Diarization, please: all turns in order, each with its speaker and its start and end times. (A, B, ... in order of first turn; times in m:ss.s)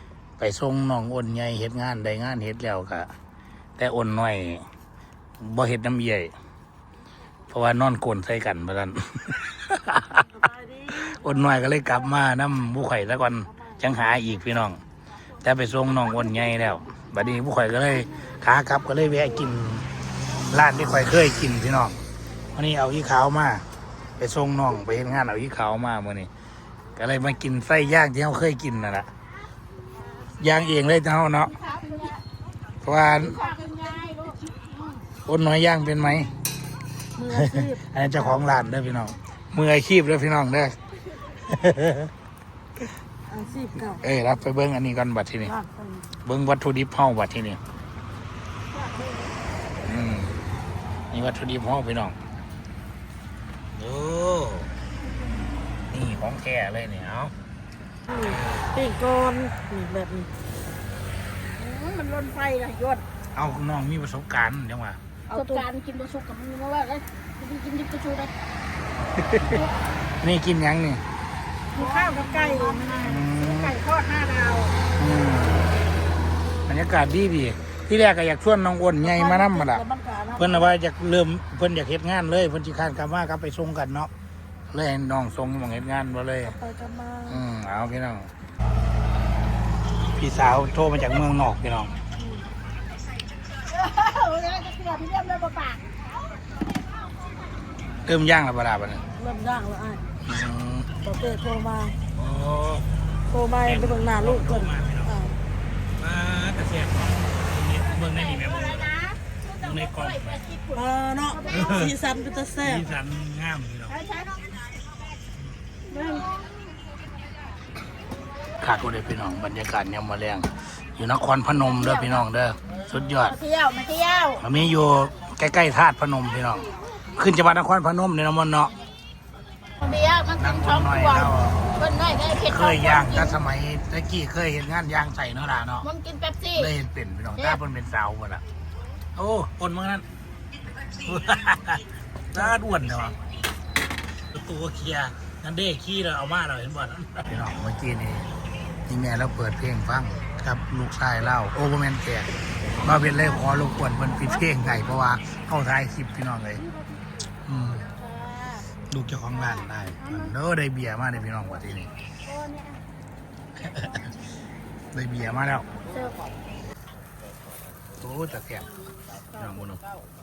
0:00.4-0:03.1 A
0:03.8-0:04.7 A
0:05.4-0:06.3 A
0:07.5-0:10.2 A
0:10.3-0:11.2 B
0:10.9-0:14.8 A
0:15.4-0:19.8 A
0:20.5-0:22.0 A
0:22.5-0:23.6 A
0:24.2-0:26.3 A
0:27.0-0:29.1 A
0:30.4-0:31.5 A
0:31.5-0:32.2 C
0:32.8-0:33.4 A
0:33.1-0:34.6 C
0:35.2-0:36.3 A
0:37.2-0:38.4 B
0:37.3-0:40.8 A
0:41.3-0:42.1 A
0:43.3-0:44.0 B
0:43.9-0:45.5 A
0:45.5-0:46.1 B
0:46.2-0:47.6 A
0:48.7-0:49.4 C
0:49.8-0:50.3 A
0:51.1-0:52.2 A
0:53.7-0:54.7 A
0:55.9-0:57.3 A
0:58.1-1:00.3 B
0:58.1-0:58.7 A
1:01.5-1:03.0 C
1:03.3-1:05.0 A
1:05.3-1:05.6 B
1:05.3-1:08.3 C
1:09.2-1:09.5 A
1:09.4-1:09.7 C
1:10.2-1:11.0 A
1:11.7-1:14.8 C
1:11.8-1:13.2 B
1:13.0-1:13.7 A
1:15.0-1:15.6 A
1:16.6-1:19.8 A
1:19.0-1:20.6 B
1:20.4-1:24.1 A
1:24.7-1:26.6 A
1:26.5-1:27.4 B
1:27.3-1:28.3 A
1:30.1-1:31.9 A
1:32.2-1:32.4 B
1:33.6-1:35.9 C
1:38.0-1:39.0 A
1:39.2-1:40.0 B
1:40.2-1:40.9 A
1:41.0-1:42.0 B
1:42.1-1:42.9 A
1:43.3-1:45.3 B
1:43.6-1:45.2 A
1:46.0-1:48.9 A
1:47.9-1:52.2 C
1:49.6-1:50.4 A
1:50.7-1:52.9 B
1:51.5-1:51.9 A
1:52.6-1:54.0 A
1:53.9-1:54.5 C
1:55.9-1:56.4 C
1:58.6-2:03.4 A
2:01.6-2:02.2 C
2:03.2-2:04.4 C
2:04.4-2:08.7 A
2:09.8-2:13.3 C
2:10.4-2:11.6 A
2:12.5-2:15.9 A
2:15.8-2:16.7 C
2:16.5-2:18.4 A
2:19.1-2:20.0 A
2:21.0-2:23.2 A
2:24.3-2:28.3 A
2:28.9-2:36.6 A
2:34.1-2:34.6 C
2:37.4-2:37.8 A
2:37.9-2:38.6 C
2:38.9-2:41.9 A
2:39.4-2:40.3 C
2:42.2-2:42.8 C
2:43.6-2:44.1 A
2:44.9-2:45.7 A
2:45.9-2:46.2 C
2:48.0-2:48.7 A
2:49.3-2:49.6 C
2:49.3-2:49.8 A